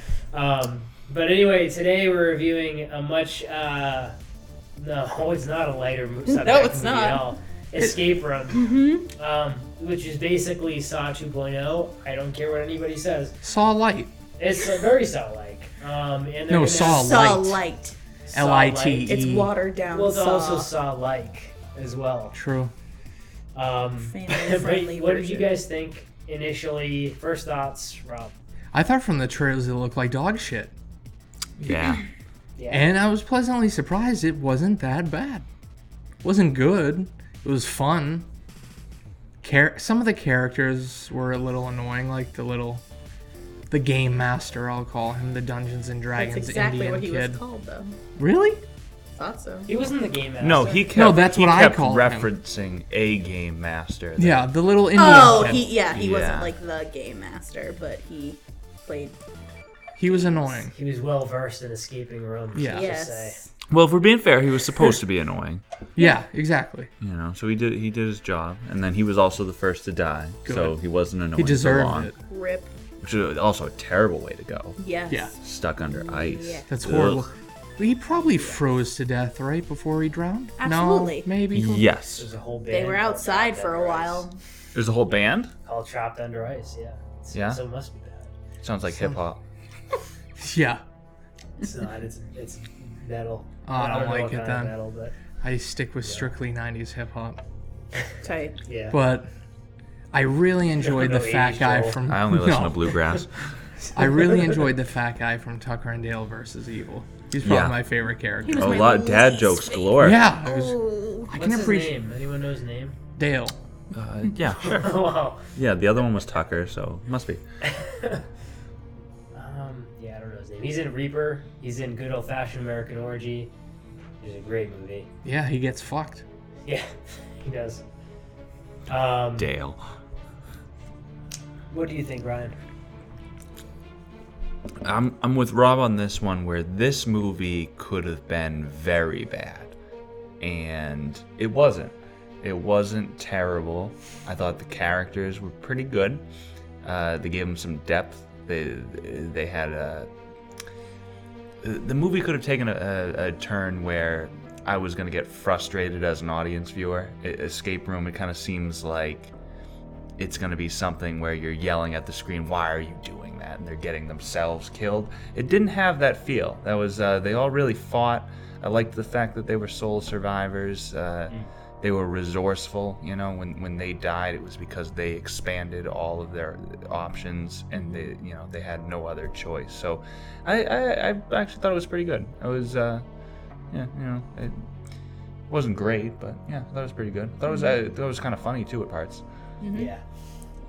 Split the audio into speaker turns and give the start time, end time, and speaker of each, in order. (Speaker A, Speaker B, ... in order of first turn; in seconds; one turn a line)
Speaker A: 0.3-4.2
Speaker A: 4.8-13.4
Speaker B: 6.3-7.3
Speaker B: 8.5-9.1
Speaker C: 13.4-14.1
Speaker A: 14.4-17.2
Speaker C: 16.5-17.6
Speaker B: 16.6-18.0
Speaker A: 18.3-19.2
Speaker C: 18.3-19.5
Speaker B: 19.1-20.7
Speaker A: 19.9-22.4
Speaker C: 22.3-22.7
Speaker A: 23.6-28.4
Speaker B: 24.0-25.5
Speaker C: 28.7-30.7
Speaker C: 31.6-31.9
Speaker D: 31.6-32.0
Speaker A: 32.6-32.9
Speaker C: 32.7-35.5
Speaker C: 36.2-38.3
Speaker C: 39.4-42.8
Speaker C: 43.7-47.4
Speaker B: 46.1-48.0
Speaker C: 48.2-48.6
Speaker B: 49.2-49.7
Speaker A: 49.7-50.9
Speaker D: 50.4-54.5
Speaker C: 50.9-52.3
Speaker C: 54.2-55.7
Speaker B: 54.9-59.2
Speaker D: 55.1-56.5
Speaker C: 60.0-60.7
Speaker B: 60.1-60.7
Speaker A: 60.7-63.4
Speaker C: 62.5-62.9
Speaker B: 62.6-63.5
Speaker D: 63.7-65.6
Speaker C: 66.0-66.9
Speaker D: 67.0-72.1
Speaker C: 70.5-70.8
Speaker C: 71.4-72.1
Speaker B: 72.3-72.7
Speaker D: 73.0-74.8
Speaker B: 74.8-76.7
Speaker D: 75.4-77.2
Speaker C: 76.7-82.0
Speaker B: 78.2-78.6
Speaker B: 80.6-81.3
Speaker D: 81.5-82.3
Speaker A: 82.2-84.3
Speaker B: 82.7-84.4
Speaker D: 84.7-85.5
Speaker A: 85.6-88.3
Speaker D: 87.3-87.6
Speaker D: 88.6-89.4
Speaker C: 90.4-90.8
Speaker A: 91.6-95.2
Speaker C: 93.7-94.8
Speaker C: 95.4-97.4
Speaker A: 96.0-96.3
Speaker B: 98.2-98.6
Speaker A: 98.7-99.0
Speaker C: 98.9-99.3
Speaker C: 100.1-103.0
Speaker A: 100.8-102.0
Speaker D: 102.1-103.5
Speaker C: 103.9-108.8
Speaker D: 107.4-107.8
Speaker B: 108.4-111.3
Speaker D: 108.5-110.3
Speaker C: 110.0-112.0
Speaker A: 111.3-113.0
Speaker C: 113.2-113.5
Speaker D: 113.9-114.9
Speaker A: 114.6-115.5
Speaker D: 115.5-117.4
Speaker A: 117.6-118.3
Speaker A: 119.3-123.5
Speaker A: 124.2-125.1
Speaker C: 125.2-126.2
Speaker A: 126.7-127.8
Speaker A: 128.9-129.5
Speaker D: 129.4-129.8
Speaker A: 131.7-132.6
Speaker D: 134.8-139.7
Speaker D: 140.4-146.2
Speaker D: 146.8-150.1
Speaker D: 151.6-159.3
Speaker D: 160.2-183.1
Speaker B: 177.8-178.1
Speaker D: 183.7-184.7
Speaker D: 185.5-189.2
Speaker B: 187.5-187.8
Speaker B: 189.6-189.9
Speaker A: 189.7-190.0